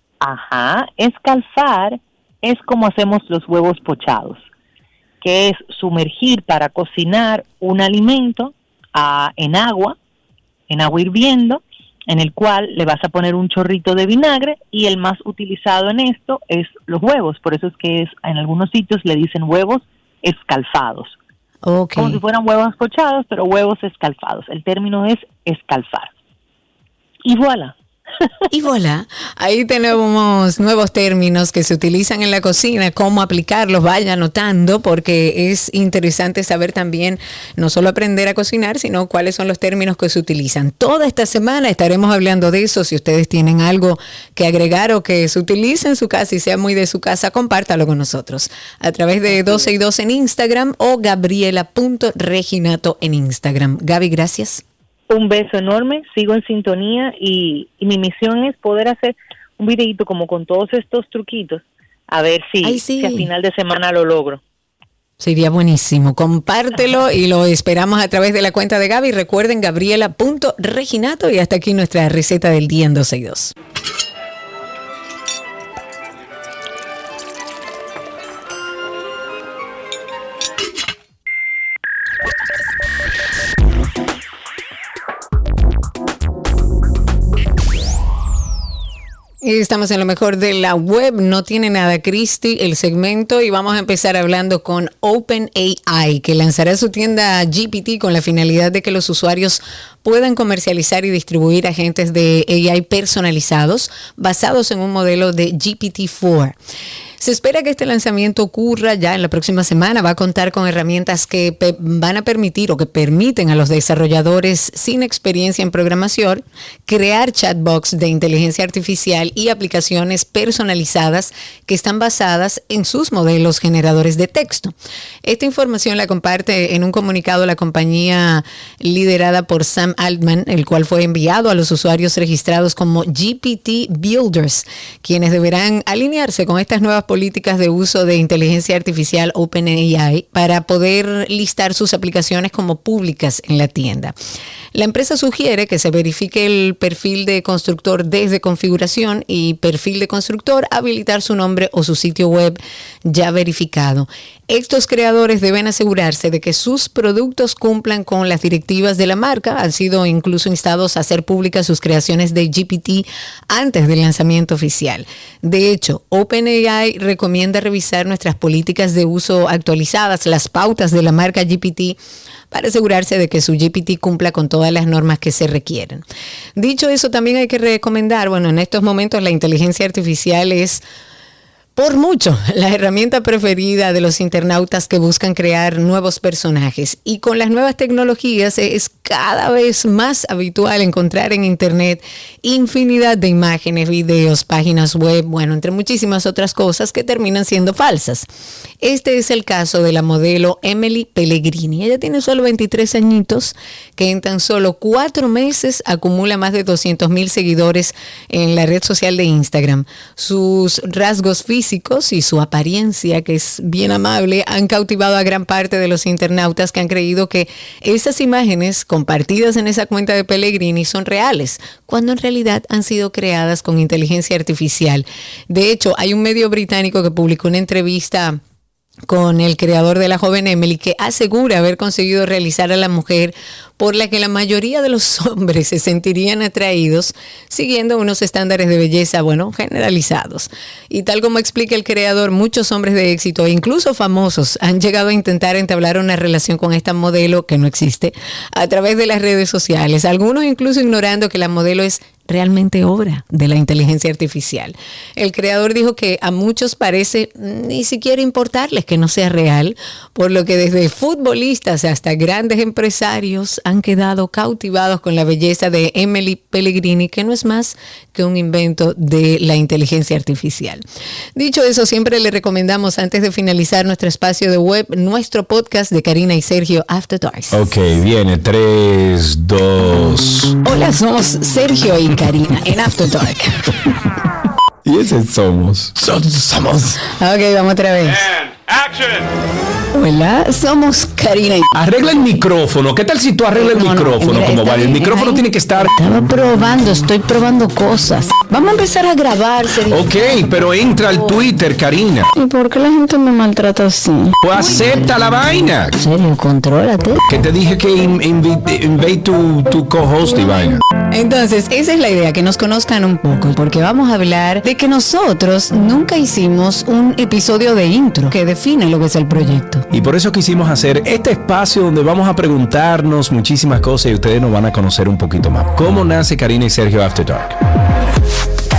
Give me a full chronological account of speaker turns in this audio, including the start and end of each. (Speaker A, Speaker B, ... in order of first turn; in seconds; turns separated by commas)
Speaker A: 0.2-4.4, Speaker A: 5.2-10.0, Speaker A: 10.7-21.2, Speaker B: 21.6-22.2, Speaker A: 22.0-26.1, Speaker A: 27.2-27.7, Speaker B: 28.5-54.6, Speaker A: 55.1-64.4, Speaker B: 62.6-63.3, Speaker B: 65.2-73.5, Speaker B: 89.4-106.6, Speaker B: 107.2-144.1, Speaker B: 144.8-172.0, Speaker B: 172.5-176.0, Speaker B: 176.6-180.8, Speaker B: 181.8-198.3, Speaker B: 198.8-228.4, Speaker B: 229.1-270.8, Speaker B: 271.4-277.7, Speaker C: 277.5-280.6, Speaker B: 280.6-283.6, Speaker C: 284.9-287.0, Speaker B: 287.1-288.3, Speaker B: 289.9-291.7, Speaker C: 291.7-295.9, Speaker B: 293.6-300.1, Speaker C: 299.9-302.3, Speaker B: 302.3-304.9, Speaker C: 304.4-306.0, Speaker B: 306.0-307.3, Speaker C: 307.3-310.8, Speaker B: 311.1-319.9, Speaker C: 319.9-327.6